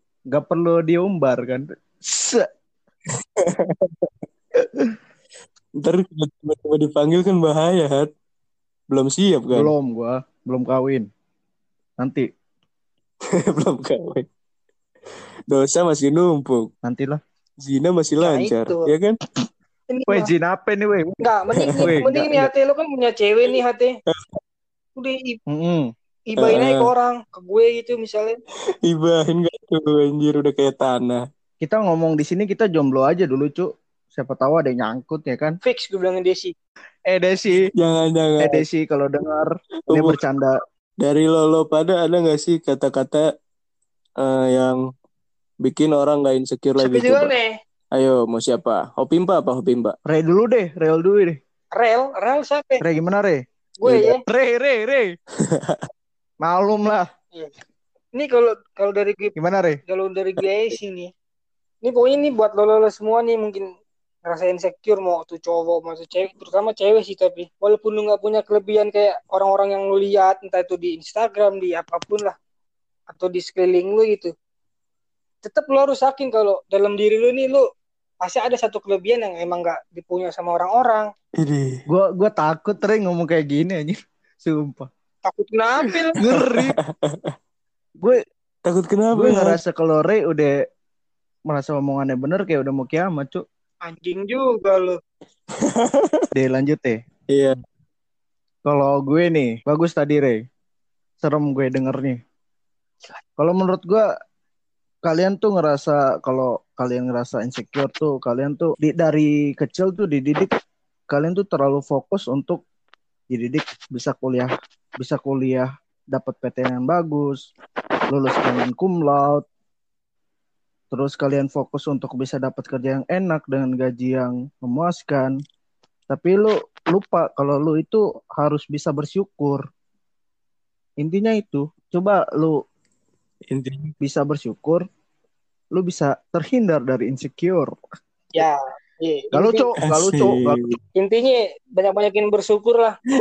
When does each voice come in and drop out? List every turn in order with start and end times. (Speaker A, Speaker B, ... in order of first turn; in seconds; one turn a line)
Speaker A: 0.3-2.5
Speaker B: 3.4-4.1
Speaker B: 5.8-8.1
Speaker B: 8.9-9.7
Speaker A: 9.5-11.1
Speaker A: 12.0-12.3
Speaker B: 13.5-14.2
Speaker B: 15.5-16.7
Speaker A: 16.8-17.2
Speaker B: 17.6-19.2
Speaker C: 18.2-18.9
Speaker C: 19.9-20.3
Speaker A: 20.1-21.2
Speaker C: 21.2-23.9
Speaker B: 21.7-22.0
Speaker A: 21.8-22.5
Speaker B: 24.1-24.4
Speaker C: 25.0-25.4
Speaker A: 25.5-25.9
Speaker C: 26.3-28.4
Speaker B: 26.4-26.9
Speaker B: 28.9-31.2
Speaker A: 31.6-35.5
Speaker C: 35.6-36.5
Speaker A: 37.1-37.6
Speaker B: 37.8-38.6
Speaker A: 38.4-40.6
Speaker B: 39.9-40.2
Speaker B: 41.0-43.2
Speaker B: 44.2-44.8
Speaker B: 45.6-47.3
Speaker C: 46.8-47.5
Speaker B: 47.9-49.9
Speaker A: 50.1-51.4
Speaker C: 51.8-52.8
Speaker A: 52.8-55.1
Speaker C: 53.8-54.2
Speaker B: 55.5-55.8
Speaker A: 56.4-57.0
Speaker C: 58.1-59.3
Speaker A: 59.4-59.8
Speaker C: 59.9-61.1
Speaker C: 61.8-63.7
Speaker C: 64.3-72.3
Speaker C: 73.1-74.3
Speaker C: 75.4-77.6
Speaker C: 78.2-81.1
Speaker B: 81.4-81.8
Speaker A: 81.9-84.9
Speaker C: 85.2-86.2
Speaker A: 86.2-86.8
Speaker B: 86.2-87.3
Speaker B: 88.7-89.6
Speaker A: 89.1-90.5
Speaker A: 91.5-93.4
Speaker C: 93.8-95.0
Speaker B: 95.7-96.3
Speaker A: 96.3-97.0
Speaker A: 98.7-100.4
Speaker A: 101.2-102.2
Speaker A: 103.4-104.1
Speaker A: 105.0-110.5
Speaker A: 111.1-112.6
Speaker A: 113.3-117.4
Speaker A: 118.1-119.4
Speaker A: 120.9-125.3
Speaker A: 126.1-129.6
Speaker A: 131.0-132.6
Speaker B: 133.5-133.9
Speaker A: 134.0-134.8
Speaker A: 135.7-137.8
Speaker C: 138.3-139.7
Speaker A: 139.3-140.7
Speaker B: 139.8-140.8
Speaker C: 141.0-142.9